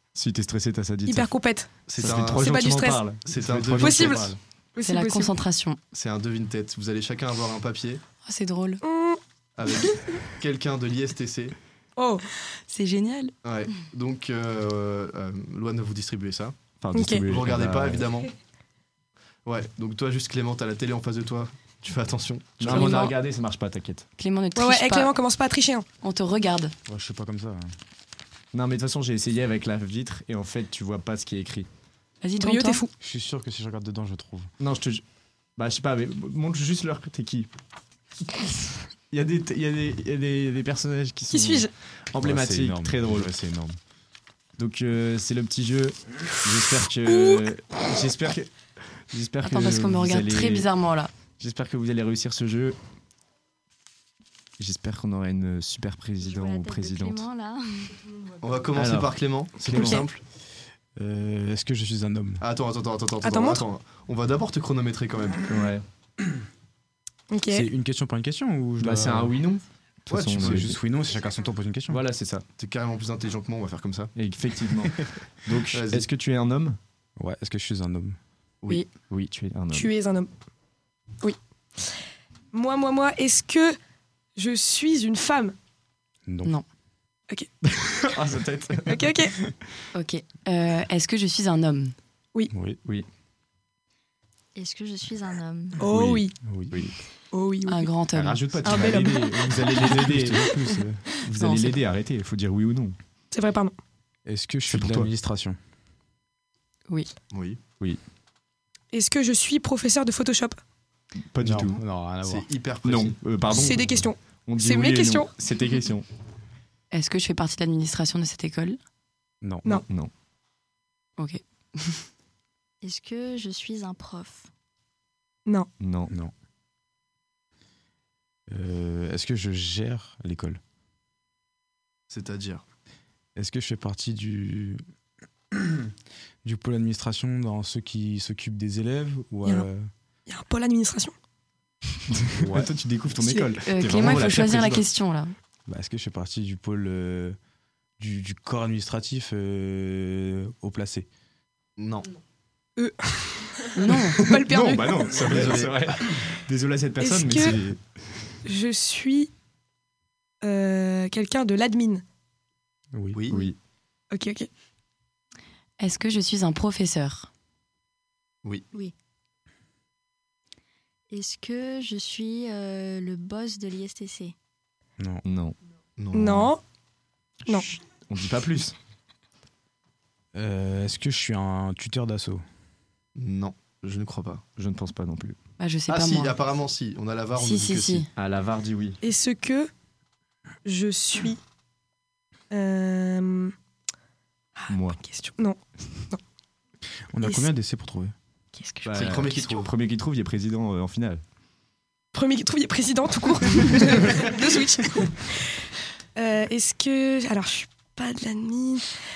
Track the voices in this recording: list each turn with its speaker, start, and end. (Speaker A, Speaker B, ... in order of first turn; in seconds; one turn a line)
Speaker A: 0.1-1.4
Speaker B: 1.1-1.9
Speaker C: 1.9-2.5
Speaker A: 1.9-4.4
Speaker B: 2.4-3.1
Speaker C: 3.2-4.3
Speaker B: 3.8-5.3
Speaker D: 4.8-5.8
Speaker C: 5.9-8.0
Speaker D: 8.2-8.8
Speaker B: 8.8-9.2
Speaker C: 9.6-11.6
Speaker B: 12.0-12.2
Speaker D: 12.7-13.3
Speaker C: 13.4-16.6
Speaker A: 16.8-18.0
Speaker B: 16.9-17.3
Speaker C: 17.3-18.3
Speaker C: 19.4-23.1
Speaker A: 22.6-24.1
Speaker D: 22.6-23.2
Speaker D: 24.2-25.1
Speaker B: 24.6-25.9
Speaker D: 26.0-26.7
Speaker E: 26.9-27.7
Speaker A: 28.5-31.7
Speaker D: 32.2-32.8
Speaker B: 32.4-32.9
Speaker E: 33.0-34.5
Speaker A: 34.6-35.0
Speaker A: 35.6-37.5
Speaker A: 39.1-43.8
Speaker B: 41.3-41.7
Speaker E: 42.2-43.7
Speaker A: 44.6-48.5
Speaker B: 47.1-47.5
Speaker A: 49.1-50.7
Speaker D: 49.4-51.1
Speaker A: 51.4-52.8
Speaker A: 54.6-57.3
Speaker F: 56.2-58.0
Speaker C: 58.4-60.2
Speaker A: 58.8-60.0
Speaker B: 59.7-60.0
Speaker E: 61.0-62.4
Speaker C: 62.4-65.4
Speaker B: 63.2-63.6
Speaker A: 65.5-65.8
Speaker B: 67.3-67.7
Speaker E: 67.5-69.3
Speaker A: 68.8-70.8
Speaker C: 70.1-70.7
Speaker E: 70.3-72.0
Speaker A: 71.9-72.4
Speaker C: 72.6-74.1
Speaker A: 74.2-76.8
Speaker C: 75.7-76.1
Speaker E: 77.2-78.2
Speaker A: 78.6-79.9
Speaker B: 79.7-80.3
Speaker B: 81.2-82.0
Speaker B: 82.5-83.8
Speaker B: 84.4-85.5
Speaker E: 86.3-86.6
Speaker A: 87.6-89.1
Speaker B: 88.9-89.3
Speaker D: 89.9-92.0
Speaker E: 92.5-92.8
Speaker F: 94.5-95.8
Speaker B: 95.8-96.4
Speaker A: 95.8-97.0
Speaker E: 96.4-96.9
Speaker B: 97.3-97.9
Speaker D: 97.7-98.6
Speaker A: 98.1-100.6
Speaker B: 98.6-100.1
Speaker E: 100.0-101.0
Speaker A: 101.2-103.0
Speaker D: 101.3-101.8
Speaker B: 103.3-103.8
Speaker E: 104.3-105.6
Speaker A: 104.7-105.1
Speaker C: 107.3-107.6
Speaker B: 108.9-110.6
Speaker A: 111.3-111.8
Speaker E: 111.4-112.5
Speaker C: 112.2-113.2
Speaker A: 112.8-116.1
Speaker B: 113.5-115.3
Speaker D: 116.9-118.8
Speaker E: 119.4-119.8
Speaker A: 119.8-120.1
Speaker D: 121.2-122.0
Speaker F: 122.8-124.5
Speaker A: 125.8-126.1
Speaker E: 128.5-130.6
Speaker C: 132.1-132.6
Speaker E: 133.4-134.8
Speaker E: 135.5-135.9
Speaker E: 136.4-139.9
Speaker B: 140.3-141.1
Speaker A: 142.2-144.8
Speaker E: 142.4-142.7
Speaker D: 143.3-145.3
Speaker E: 145.7-147.4
Speaker E: 148.0-151.1
Speaker C: 151.8-152.1
Speaker B: 152.8-155.4
Speaker D: 153.8-154.2
Speaker A: 154.2-158.1
Speaker C: 155.2-155.9
Speaker B: 157.0-157.6
Speaker B: 158.4-159.3
Speaker B: 160.4-162.0
Speaker E: 162.9-163.2
Speaker C: 163.1-163.5
Speaker A: 163.3-163.6
Speaker B: 164.1-164.5
Speaker D: 165.8-167.3
Speaker F: 171.1-174.3
Speaker A: 175.2-175.6
Speaker C: 176.0-176.5
Speaker B: 176.1-176.6
Speaker A: 177.8-178.8
Speaker E: 180.3-182.4
Speaker C: 183.2-184.4
Speaker A: 184.6-185.4
Speaker D: 185.6-186.3
Speaker C: 185.9-188.1
Speaker D: 187.4-188.1
Speaker A: 188.2-189.0
Speaker B: 189.0-189.7
Speaker B: 190.7-191.4
Speaker B: 192.5-193.5
Speaker B: 194.6-195.6
Speaker A: 194.7-195.0
Speaker E: 197.1-198.1
Speaker B: 197.2-197.5
Speaker B: 198.6-199.0
Speaker A: 198.8-201.2
Speaker C: 198.9-199.7
Speaker B: 202.1-208.9